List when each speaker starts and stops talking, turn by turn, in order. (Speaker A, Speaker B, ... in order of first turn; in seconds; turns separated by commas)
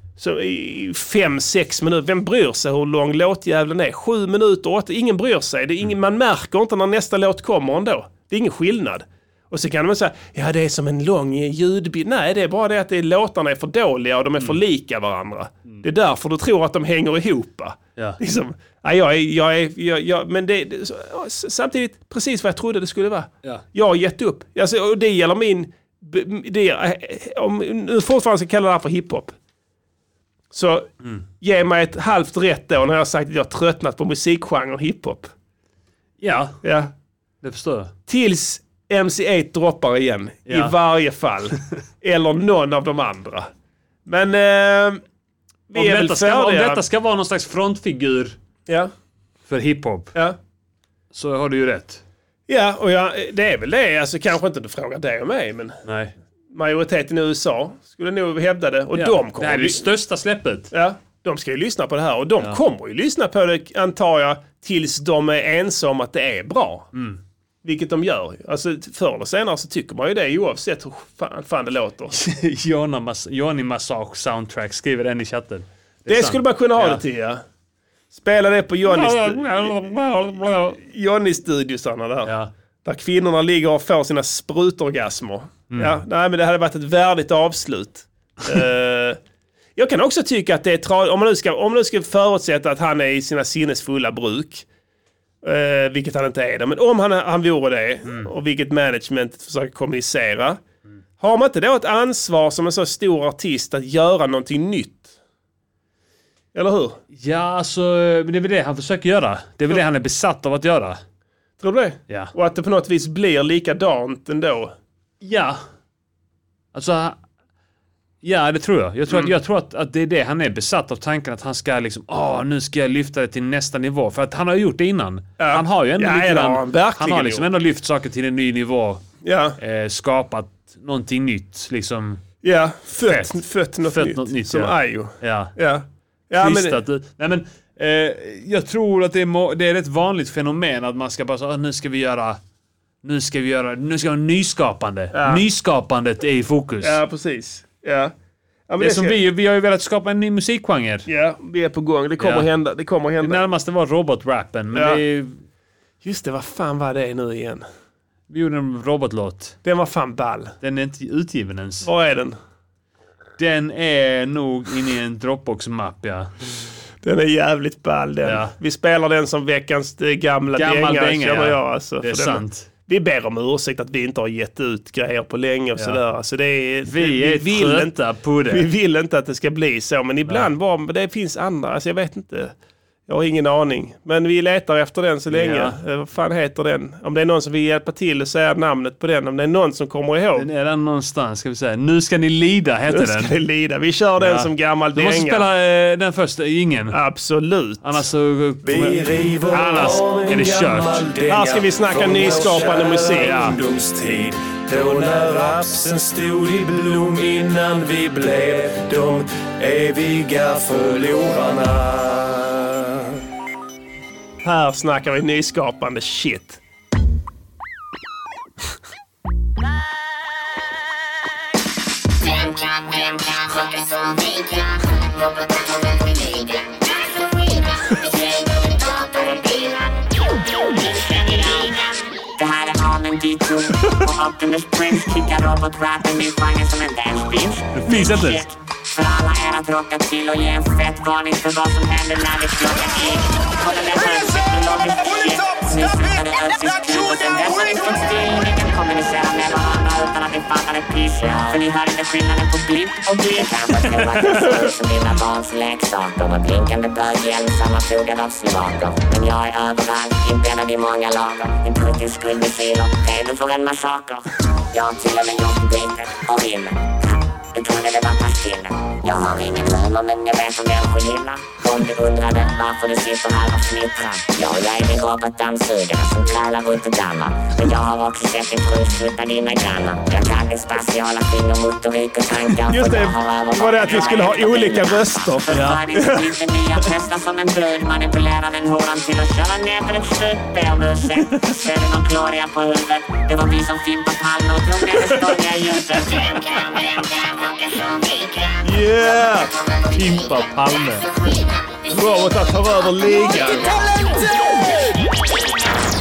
Speaker A: 0.2-29.3, Speaker A: 30.5-30.9, Speaker A: 31.4-35.3, Speaker B: 36.2-36.6, Speaker A: 36.6-36.9, Speaker B: 37.4-37.9, Speaker A: 38.1-43.5, Speaker B: 40.5-40.7, Speaker A: 44.0-45.0, Speaker A: 45.7-46.8, Speaker B: 45.7-48.4, Speaker B: 49.5-50.1, Speaker B: 51.1-52.0, Speaker A: 52.5-55.8, Speaker B: 55.8-56.1, Speaker A: 56.5-59.9, Speaker B: 58.9-60.7, Speaker A: 60.7-66.9, Speaker B: 66.9-67.2, Speaker A: 67.6-72.2, Speaker B: 72.1-77.0, Speaker A: 76.1-77.4, Speaker A: 78.1-79.7, Speaker B: 78.8-80.8, Speaker A: 80.7-82.3, Speaker B: 82.2-82.5, Speaker A: 82.8-89.2, Speaker B: 85.7-86.0, Speaker A: 89.8-94.7, Speaker A: 95.4-100.6, Speaker A: 101.2-105.1, Speaker A: 106.5-107.0, Speaker B: 107.2-111.0, Speaker A: 111.6-114.7, Speaker B: 115.2-115.6, Speaker B: 116.7-117.2, Speaker B: 118.2-129.0, Speaker A: 125.4-127.5, Speaker A: 129.2-129.6, Speaker B: 129.6-132.2, Speaker A: 132.4-136.8, Speaker B: 133.0-133.3, Speaker B: 133.9-135.5, Speaker B: 136.4-142.4, Speaker B: 143.0-147.0, Speaker A: 145.1-145.4, Speaker A: 146.8-148.1, Speaker A: 148.7-149.2, Speaker B: 148.8-151.1, Speaker A: 151.1-153.4, Speaker B: 152.2-152.5, Speaker B: 153.2-155.4, Speaker A: 154.7-155.0, Speaker A: 156.0-157.7, Speaker B: 158.3-159.6, Speaker A: 159.6-160.5, Speaker B: 160.6-161.9, Speaker A: 161.8-162.4, Speaker B: 163.4-166.3, Speaker A: 167.0-177.9, Speaker B: 168.2-168.5, Speaker B: 170.5-172.7, Speaker B: 176.9-178.7, Speaker A: 178.5-182.5, Speaker A: 183.1-190.4, Speaker B: 185.3-185.8, Speaker B: 190.3-193.3, Speaker A: 192.9-195.4, Speaker B: 194.2-197.0, Speaker A: 196.9-198.0, Speaker B: 197.8-201.1, Speaker C: 198.6-201.2, Speaker A: 201.2-203.5, Speaker C: 202.0-203.3, Speaker B: 203.1-203.6, Speaker C: 204.7-205.7, Speaker C: 206.6-212.4, Speaker A: 214.4-216.6, Speaker D: 228.0-229.7, Speaker D: 230.8-231.8, Speaker D: 232.4-267.0, Speaker B: 237.7-238.5, Speaker D: 267.5-296.4, Speaker A: 282.7-286.3, Speaker B: 285.5-286.0, Speaker A: 298.6-299.5, Speaker B: 299.9-301.1, Speaker A: 301.9-303.8